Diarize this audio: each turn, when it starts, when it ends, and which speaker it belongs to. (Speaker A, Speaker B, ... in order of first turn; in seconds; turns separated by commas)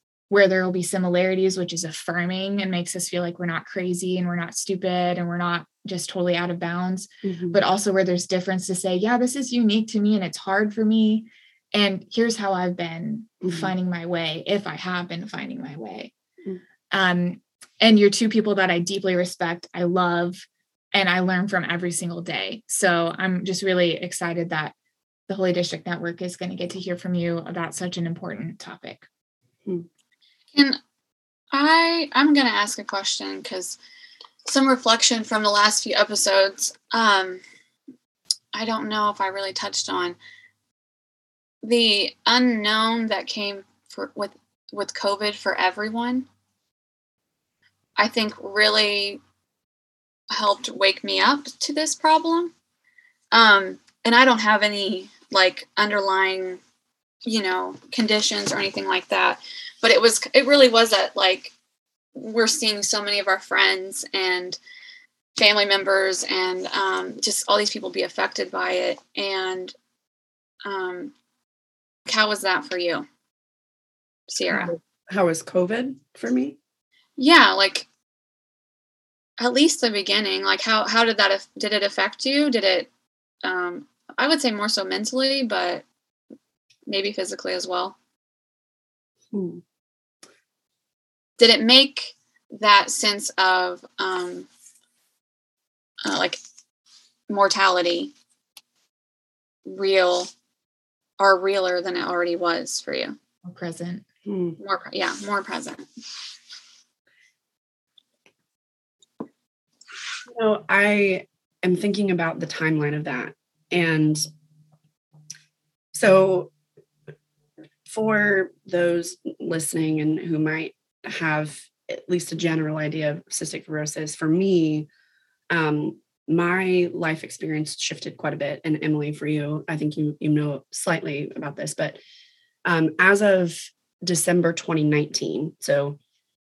Speaker A: 0.3-16.1, Speaker B: 7.2-7.6, Speaker B: 13.4-13.7, Speaker A: 16.9-24.7, Speaker A: 25.3-29.1, Speaker C: 31.5-33.8, Speaker C: 34.4-37.4, Speaker C: 38.5-40.2, Speaker C: 41.6-46.3, Speaker C: 48.0-49.2, Speaker C: 50.3-52.5, Speaker C: 53.3-56.6, Speaker C: 57.2-61.5, Speaker C: 62.1-64.6, Speaker C: 65.4-69.7, Speaker C: 70.6-71.1, Speaker C: 72.0-73.0, Speaker C: 74.3-74.7, Speaker B: 74.5-76.6, Speaker C: 77.2-77.9, Speaker C: 79.4-82.9, Speaker C: 83.4-85.8, Speaker C: 86.9-88.0, Speaker B: 89.3-89.6, Speaker C: 91.4-94.5, Speaker C: 96.0-96.4, Speaker C: 97.3-98.1, Speaker C: 99.7-100.3, Speaker C: 101.2-103.2, Speaker A: 103.4-104.0, Speaker B: 104.2-104.6, Speaker C: 104.6-105.8, Speaker B: 110.3-114.2, Speaker B: 115.9-116.5, Speaker B: 117.8-124.9, Speaker B: 125.5-132.0, Speaker B: 132.7-136.0